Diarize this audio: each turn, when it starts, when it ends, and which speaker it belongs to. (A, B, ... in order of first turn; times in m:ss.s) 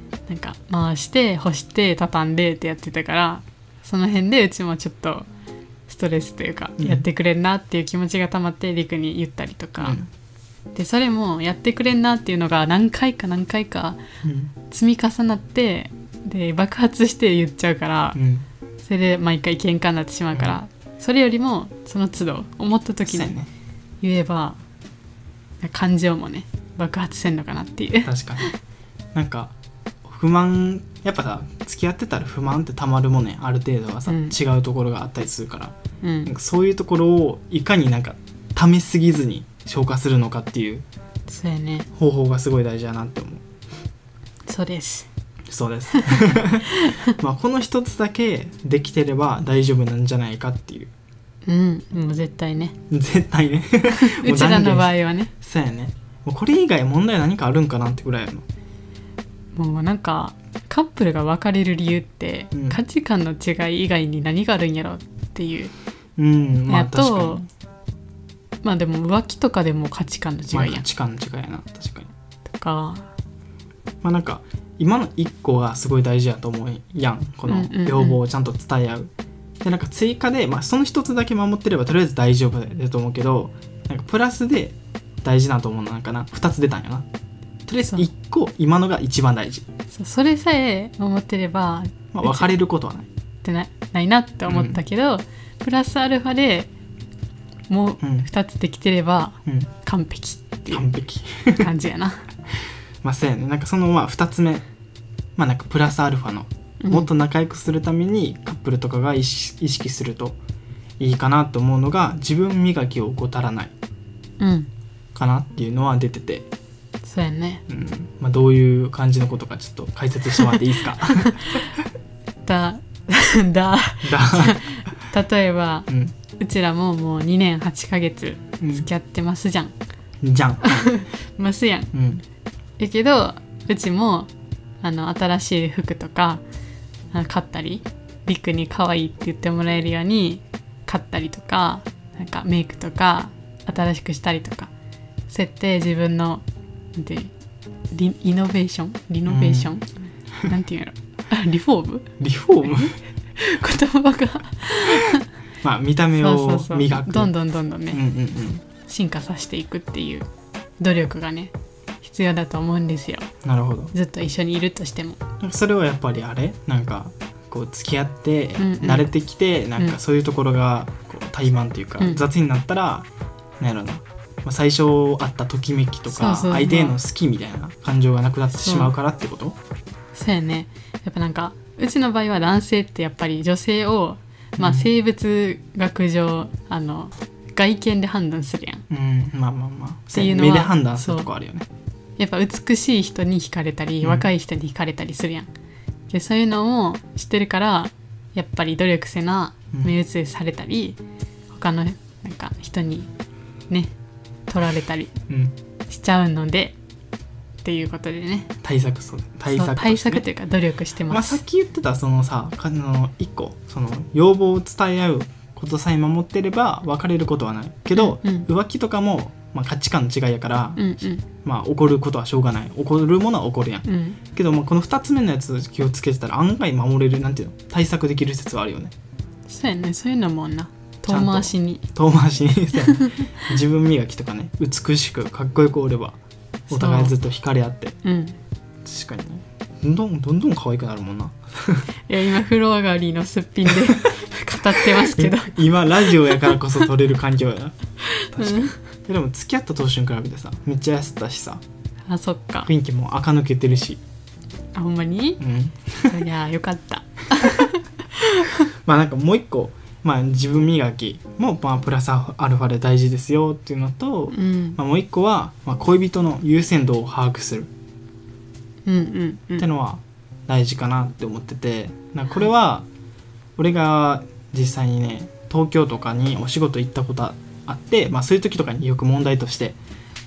0:00.3-0:05.3 A
0:05.9-0:10.0 A
0:06.8-0:07.0 B
0:09.8-0:10.1 B
0:10.7-0:14.0 A
0:14.2-0:14.5 B
0:14.7-0:18.2 A
0:18.1-0:18.4 B
0:18.8-0:23.3 A
0:23.1-0:23.5 B
0:24.0-0:24.6 A
0:25.6-0:28.5 A
0:28.0-0:28.5 B
0:29.1-0:29.5 B
0:30.0-0:40.8 B
0:34.1-0:34.3 A
0:36.0-0:36.3 A
0:41.3-0:41.9 A
0:41.9-0:43.4 B
0:44.4-0:45.1 A
0:45.5-0:50.9 B
0:45.9-0:46.3 A
0:46.8-0:47.1 A
0:51.4-0:52.7 A
0:52.9-0:58.4 B
0:53.9-0:55.3 A
0:59.5-1:05.7 A
1:02.5-1:02.8 B
1:06.2-1:07.4 B
1:06.7-1:07.4 A
1:08.6-1:10.8 A
1:10.5-1:12.1 B
1:12.5-1:13.1 A
1:14.0-1:19.1 B
1:17.5-1:18.2 A
1:19.6-1:27.0 B
1:27.7-1:29.6 B
1:29.9-1:32.5 A
1:32.1-1:33.1 B
1:33.4-1:36.7 A
1:34.5-1:34.8 B
1:37.7-1:40.9 A
1:38.0-1:38.3 B
1:40.7-1:41.7 B
1:41.6-1:42.2 A
1:43.0-1:44.6 B
1:45.4-1:50.4 B
1:46.8-1:47.1 A
1:51.0-1:53.7 B
1:54.4-1:54.7 A
1:55.1-1:56.5 B
1:57.0-1:57.6 A
1:57.7-2:01.7 B
2:01.1-2:01.7 A
2:02.4-2:09.7 A
2:04.0-2:04.6 B
2:05.9-2:06.1 B
2:08.6-2:08.9 B
2:10.2-2:11.0 B
2:10.6-2:11.9 A
2:11.9-2:12.2 B
2:12.8-2:14.3 A
2:14.8-2:16.4 A
2:17.1-2:24.7 A
2:25.3-2:27.3 A
2:27.9-2:32.1 A
2:29.3-2:29.7 B
2:32.2-2:32.9 B
2:32.7-2:35.3 A
2:35.6-2:37.3 B
2:36.2-2:38.0 A
2:37.9-2:38.6 B
2:38.8-2:40.2 A
2:40.8-2:43.2 A
2:43.4-2:43.9 B
2:43.9-2:45.2 A
2:45.4-2:53.1 B
2:48.6-2:49.1 A
2:53.6-2:59.6 B
2:56.1-2:57.0 A
2:58.6-2:58.9 A
3:00.1-3:08.8 A
3:04.6-3:04.9 B
3:08.9-3:11.6 B
3:10.1-3:11.3 A
3:12.2-3:15.5 A
3:14.0-3:14.3 B
3:16.1-3:21.0 A
3:21.5-3:23.1 A
3:24.5-3:25.1 A
3:25.9-3:26.8 A
3:27.6-3:28.5 A
3:28.6-3:30.2 B
3:29.5-3:31.4 A
3:31.1-3:48.9 B
3:37.9-3:38.5 A
3:40.8-3:41.2 A
3:43.8-3:44.2 A
3:49.5-3:51.8 A
3:51.1-3:56.2 B
3:52.8-3:53.3 A
3:56.7-3:57.1 A
3:56.7-3:58.0 B
3:58.0-3:58.4 A
3:58.8-4:01.9 B
4:02.1-4:06.9 A
4:04.9-4:07.8 B
4:08.1-4:08.7 A
4:08.3-4:11.6 B
4:12.1-4:12.7 A
4:12.6-4:14.0 B
4:14.7-4:15.4 A
4:15.4-4:16.2 B
4:16.1-4:18.6 A
4:18.8-4:27.7 B
4:24.3-4:24.8 A
4:28.8-4:29.6 A
4:29.6-4:32.8 B
4:33.6-4:39.8 B